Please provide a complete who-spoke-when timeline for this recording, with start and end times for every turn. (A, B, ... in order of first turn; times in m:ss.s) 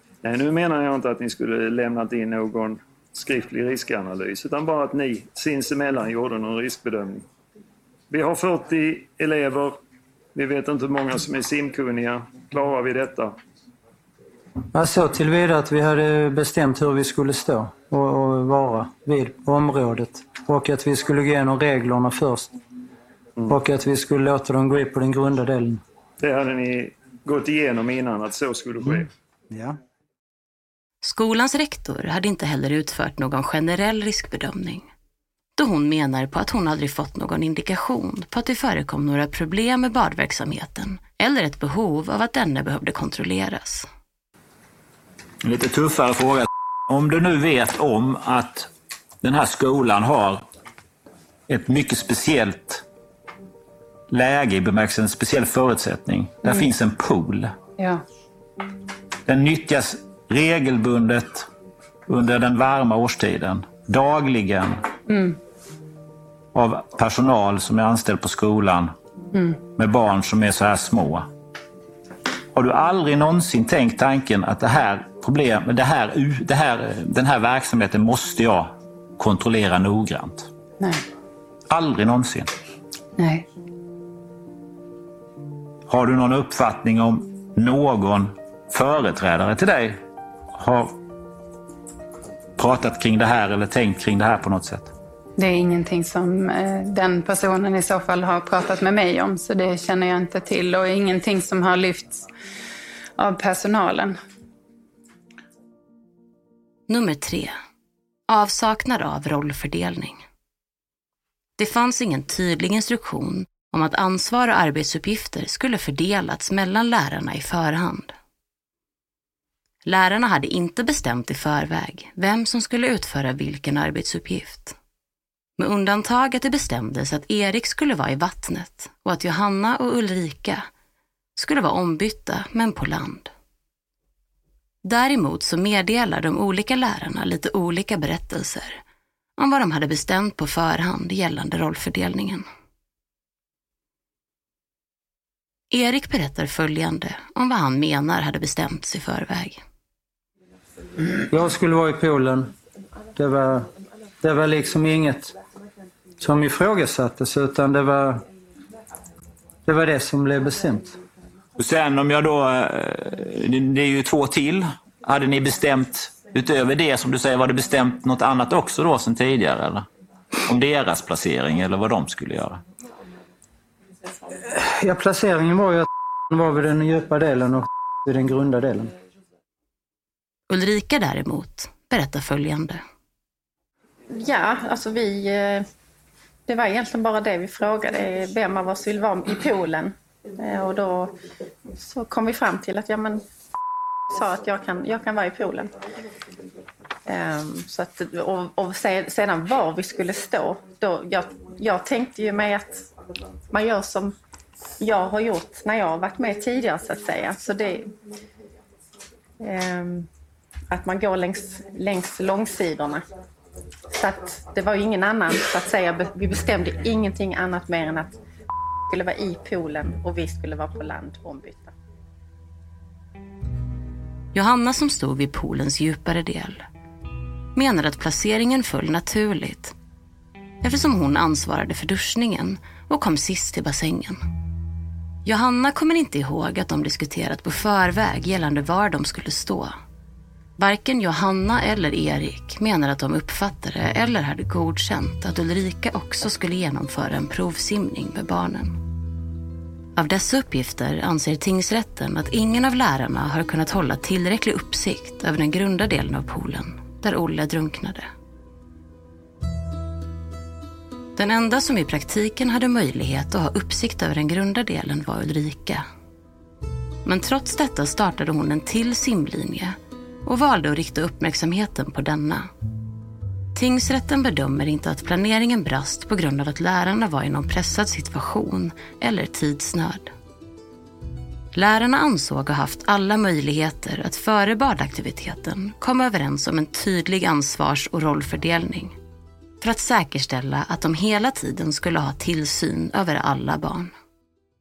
0:00.2-0:07.3 A
0:08.1-0:09.8 A
0:10.4-0:13.4 A
0:14.7-0:22.6 B
0:23.5-0:25.8 B
0:26.2-0:29.1 A
0:29.5-0:29.8 B
0:31.0-0:34.9 C
0:35.6-0:43.9 C
0:45.4-0:48.7 D
0:49.2-0:50.4 D
0:51.5-0:52.8 D
0:54.1-0:57.6 D
0:59.3-1:01.5 D
1:02.1-1:04.8 D
1:05.1-1:05.4 E
1:06.5-1:09.0 D
1:09.3-1:09.6 E
1:09.8-1:11.3 D
1:12.5-1:20.5 D
1:20.8-1:21.0 E
1:21.7-1:22.5 D
1:23.2-1:23.4 E
1:25.9-1:30.0 D
1:30.5-1:31.0 D
1:32.6-1:34.9 D
1:35.4-1:42.3 E
1:43.2-1:44.2 E
1:46.9-1:47.6 C
1:48.3-1:50.2 C
1:51.6-1:58.2 C
1:59.8-2:04.8 C
2:05.6-2:10.7 C
2:11.4-2:13.3 C
2:14.8-2:18.8 C
2:19.4-2:22.4 C
2:25.7-2:29.6 C
2:31.3-2:32.5 B
2:33.2-2:33.7 B
2:34.2-2:35.4 B
2:36.2-2:38.2 B
2:39.6-2:41.0 B
2:41.6-2:49.9 D
2:50.5-2:52.6 D
2:54.4-2:58.9 B
3:00.5-3:02.8 C
3:04.1-3:05.6 F
3:06.5-3:11.2 F
3:11.8-3:13.2 F
3:14.1-3:15.7 F
3:17.1-3:22.9 F
3:23.5-3:24.2 F
3:24.8-3:27.9 F
3:29.4-3:30.1 F
3:30.7-3:33.1 F
3:33.9-3:38.2 F
3:38.9-3:41.7 F
3:44.3-3:46.6 C
3:47.6-3:49.8 C
3:50.6-3:54.2 C
3:55.3-3:59.8 C
4:00.6-4:08.8 C
4:10.0-4:18.1 C
4:21.2-4:25.8 C
4:27.0-4:32.5 C
4:33.6-4:40.1 C
4:41.5-4:49.0 C
4:49.6-4:53.9 C